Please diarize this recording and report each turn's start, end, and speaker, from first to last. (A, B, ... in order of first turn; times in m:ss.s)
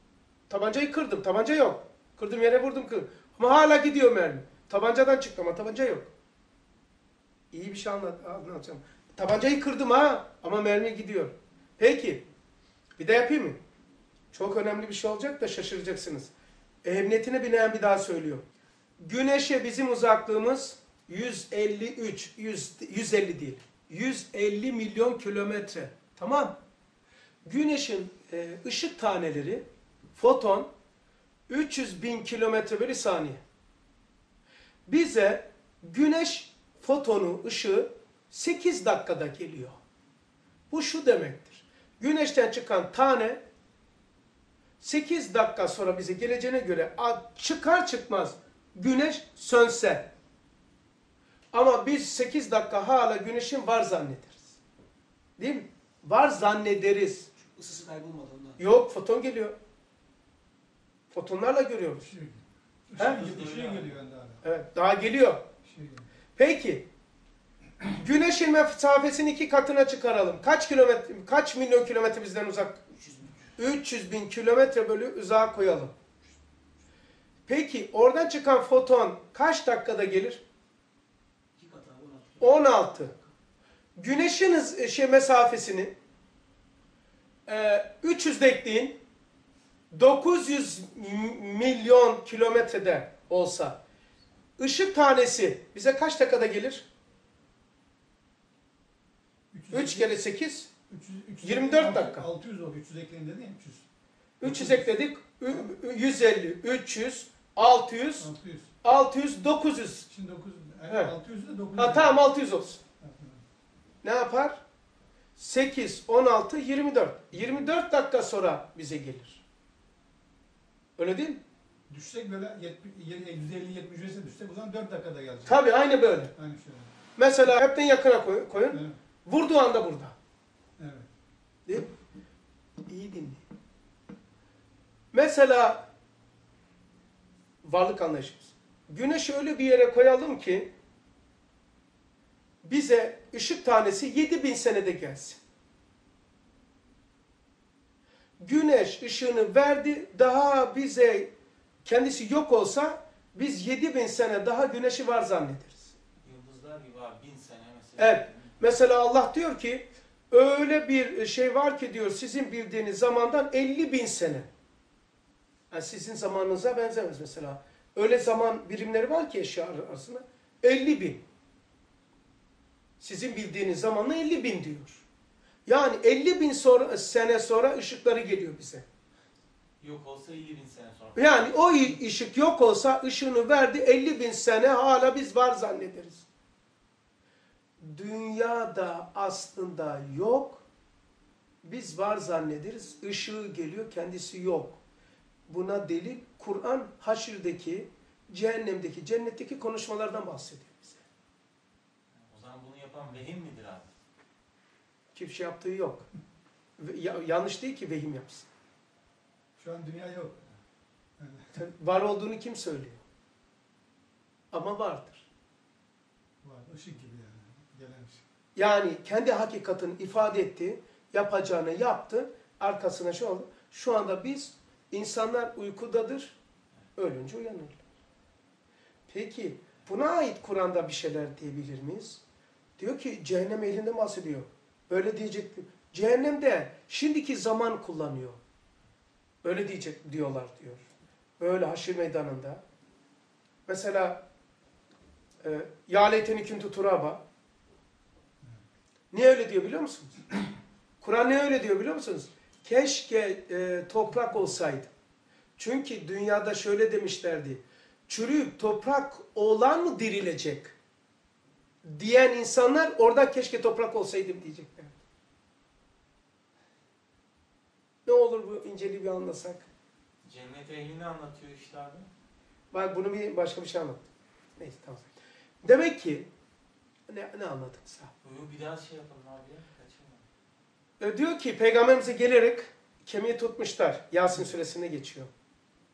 0:00.5-0:06.1 A
0:07.5-0:12.2 A
0:13.0-0:13.6 A
0:14.3-0:16.3 A
0:16.8-0:18.4 A
0:19.0-0:26.6 A
0:27.4-0:30.7 A
0:31.5-0:33.4 A
0:34.9-0:39.8 A
0:40.7-0:43.4 A
0:44.8-0:50.1 A
0:51.5-0:54.6 A
0:55.4-0:57.3 A
0:57.4-0:58.6 B
0:58.6-0:59.6 A
1:01.1-1:02.1 A
1:02.0-1:04.4 C
1:03.0-1:03.2 A
1:03.0-1:03.9 D
1:04.4-1:05.4 A
1:05.6-1:06.0 C
1:06.4-1:06.9 A
1:07.9-1:12.8 A
1:12.9-1:13.5 B
1:13.6-1:15.9 A
1:17.5-1:20.4 A
1:21.6-1:23.3 B
1:22.4-1:23.1 A
1:24.0-1:25.9 A
1:27.5-1:29.0 A
1:29.9-1:33.8 A
1:34.6-1:36.9 A
1:39.5-1:40.2 C
1:39.7-1:40.7 A
1:40.9-1:43.8 C
1:41.4-1:42.3 A
1:44.4-1:48.3 A
1:44.4-1:44.9 C
1:48.2-1:48.7 C
1:48.8-1:50.1 A
1:50.1-1:52.2 C
1:50.9-1:51.1 A
1:51.7-1:52.8 A
1:53.0-1:53.4 C
1:54.0-1:54.6 A
1:55.4-1:59.4 A
2:01.0-2:01.4 A
2:01.9-2:05.6 C
2:05.4-2:06.3 A
2:06.3-2:06.9 C
2:07.2-2:10.1 A
2:08.7-2:09.0 C
2:10.8-2:11.1 C
2:12.9-2:13.4 A
2:15.1-2:15.8 A
2:17.6-2:20.7 A
2:22.6-2:25.4 A
2:28.4-2:31.3 A
2:31.8-2:35.9 A
2:36.2-2:38.7 D
2:38.0-2:44.5 A
2:45.7-2:51.2 A
2:53.0-2:55.0 A
2:55.6-2:58.8 A
2:59.8-3:01.5 D
3:01.2-3:06.2 A
3:07.8-3:10.6 A
3:11.6-3:14.8 A
3:15.5-3:21.0 A
3:22.3-3:23.9 D
3:25.1-3:26.1 A
3:26.8-3:28.5 A
3:29.6-3:30.4 C
3:31.2-3:31.5 C
3:31.5-3:33.0 A
3:34.5-3:35.3 A
3:36.4-3:38.2 C
3:38.6-3:46.4 A
3:47.0-3:47.8 A
3:49.1-3:52.2 A
3:52.8-3:58.4 A
3:59.4-4:00.8 A
4:01.4-4:02.6 A
4:03.7-4:04.2 A
4:05.4-4:07.2 A
4:09.1-4:10.2 A
4:11.0-4:14.9 A
4:15.6-4:20.7 A
4:21.8-4:24.9 A
4:28.0-4:29.7 A
4:30.2-4:32.1 D
4:32.7-4:34.0 A
4:34.6-4:35.1 A
4:35.6-4:36.3 A
4:37.1-4:38.1 A
4:38.2-4:40.2 D
4:41.0-4:45.3 A